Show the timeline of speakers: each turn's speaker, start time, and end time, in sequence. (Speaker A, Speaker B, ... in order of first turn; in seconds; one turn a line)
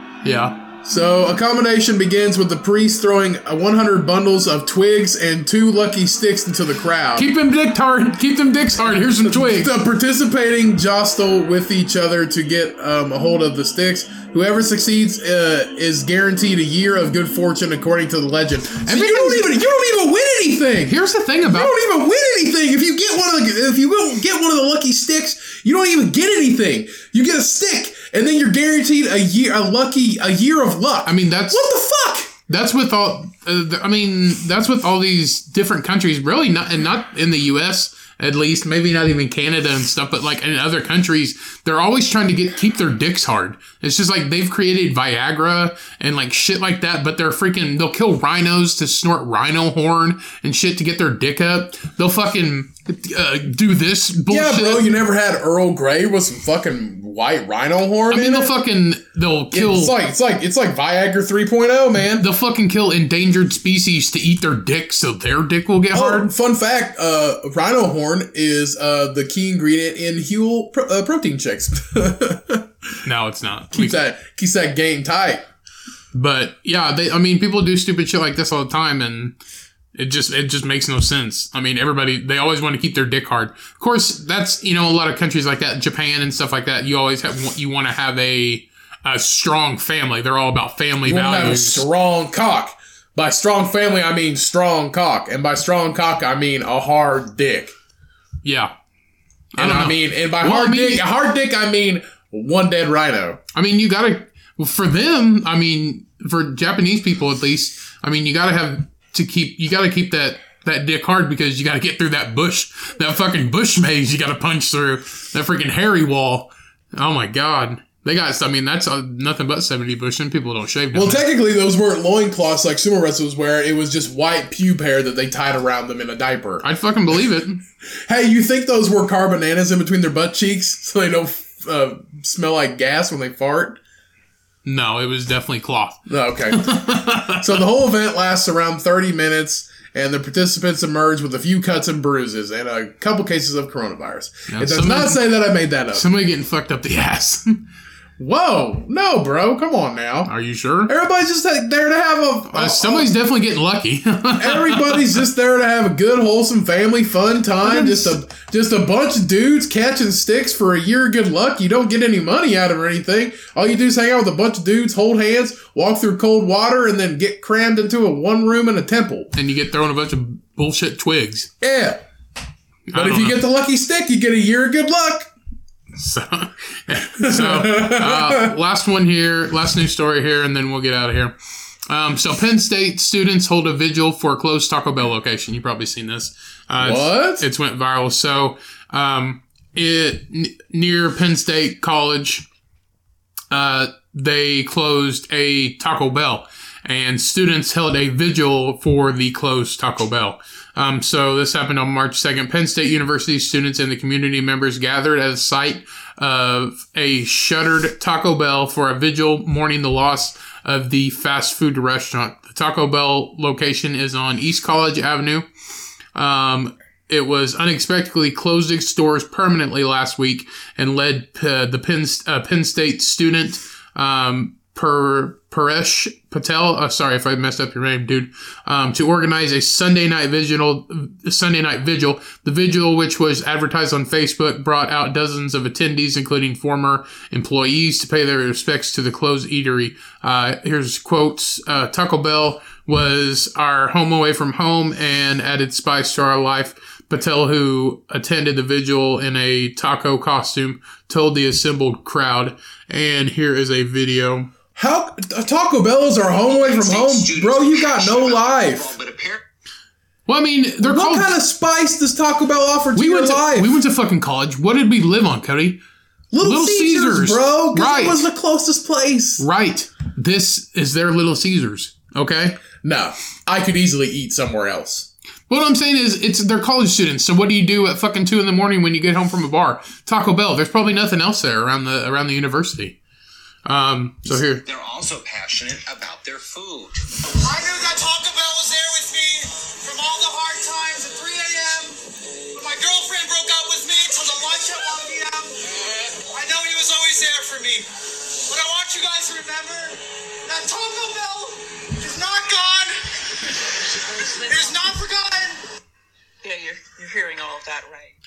Speaker A: 0.2-0.6
Speaker B: 0.8-7.3
Speaker A: 7.2-9.7
Speaker B: 9.2-32.3
Speaker A: 18.9-19.8
Speaker A: 20.9-21.7
Speaker A: 31.1-31.7
Speaker A: 32.5-55.0
Speaker B: 54.3-58.6
Speaker A: 58.1-59.9
Speaker B: 59.5-62.3
Speaker A: 62.1-66.3
Speaker B: 65.9-72.7
Speaker A: 73.0-74.0
Speaker B: 73.7-75.5
Speaker A: 76.1-79.4
Speaker A: 80.0-91.9
Speaker B: 91.0-97.7
Speaker A: 98.4-98.7
Speaker A: 99.5-101.0
Speaker B: 99.6-103.4
Speaker A: 103.5-121.2
Speaker B: 120.9-126.7
Speaker A: 126.6-127.6
Speaker B: 128.1-133.8
Speaker A: 134.7-137.7
Speaker B: 136.1-146.1
Speaker A: 144.5-145.2
Speaker A: 145.9-147.6
Speaker B: 148.2-150.3
Speaker A: 150.3-150.9
Speaker B: 150.9-153.1
Speaker A: 152.5-155.2
Speaker B: 154.4-169.3
Speaker A: 157.6-158.2
Speaker A: 169.3-171.5
Speaker B: 171.6-172.0
Speaker A: 172.9-173.4
Speaker B: 172.9-175.3
Speaker A: 175.9-181.4
Speaker B: 177.2-178.5
Speaker A: 181.9-192.5
Speaker B: 186.8-187.4
Speaker A: 193.5-215.5
Speaker A: 216.2-254.5
Speaker B: 254.7-258.9
Speaker C: 256.2-259.4
Speaker A: 260.3-261.4
Speaker B: 260.8-263.7
Speaker A: 262.9-265.8
Speaker B: 266.3-269.4
Speaker A: 266.4-268.2
Speaker A: 269.4-272.6
Speaker B: 272.8-275.1
Speaker A: 275.5-283.0
Speaker A: 283.6-284.6
Speaker C: 284.6-286.9
Speaker D: 287.4-297.9
Speaker D: 298.4-303.8
Speaker E: 304.0-304.9
Speaker D: 304.3-305.6
Speaker E: 306.4-308.1